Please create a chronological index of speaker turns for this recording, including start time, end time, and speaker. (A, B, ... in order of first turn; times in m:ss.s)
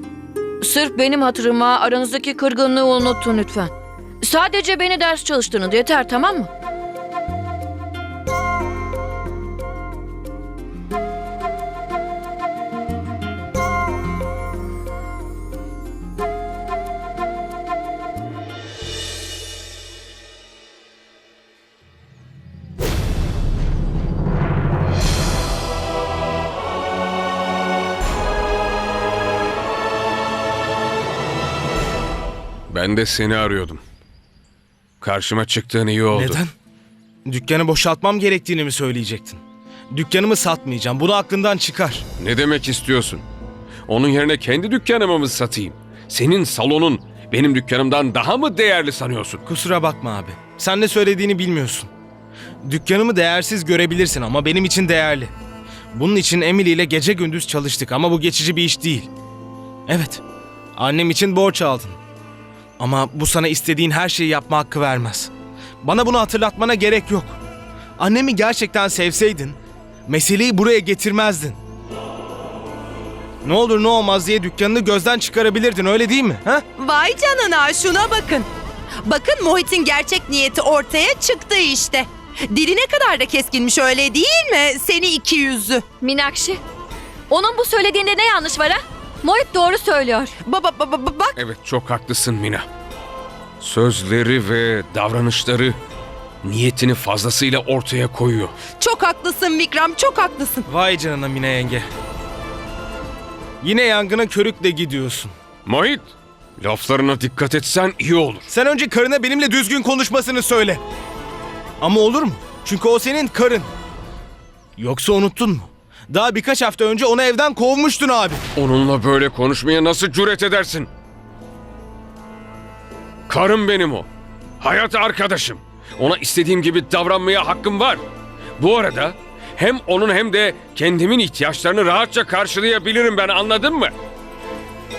0:00.6-0:06.5 A
0:32.7-0:33.8 B
0:35.0-0:36.4 B
0:36.1-0:36.5 C
0:37.2-0:39.4 C
0:39.9-0:42.0 C
0:42.2-0:43.2 B
0:43.9-0:49.4 B
0:49.4-0:51.9 C
0:52.6-0:55.3 C
0:55.9-0:59.1 C
0:59.9-1:00.2 C
1:00.8-1:02.0 C
1:02.8-1:05.3 C
1:05.8-1:07.4 C
1:08.0-1:11.6 C
1:13.4-1:16.6 C
1:16.8-1:18.5 D
1:19.0-1:25.8 D
1:26.0-1:26.6 A
1:27.3-1:30.3 A
1:30.4-1:31.3 D
1:31.4-1:32.6 B
1:33.6-1:35.8 B
1:36.4-1:38.6 B
1:38.7-1:40.6 D
1:40.7-1:41.9 C
1:43.6-1:45.3 C
1:45.6-1:46.1 B
1:46.6-1:48.4 B
1:48.5-1:50.8 C
1:51.8-1:53.7 C
1:54.8-1:58.4 C
1:58.6-2:00.9 B
2:03.3-2:04.1 B
2:04.6-2:08.0 B
2:08.6-2:13.9 B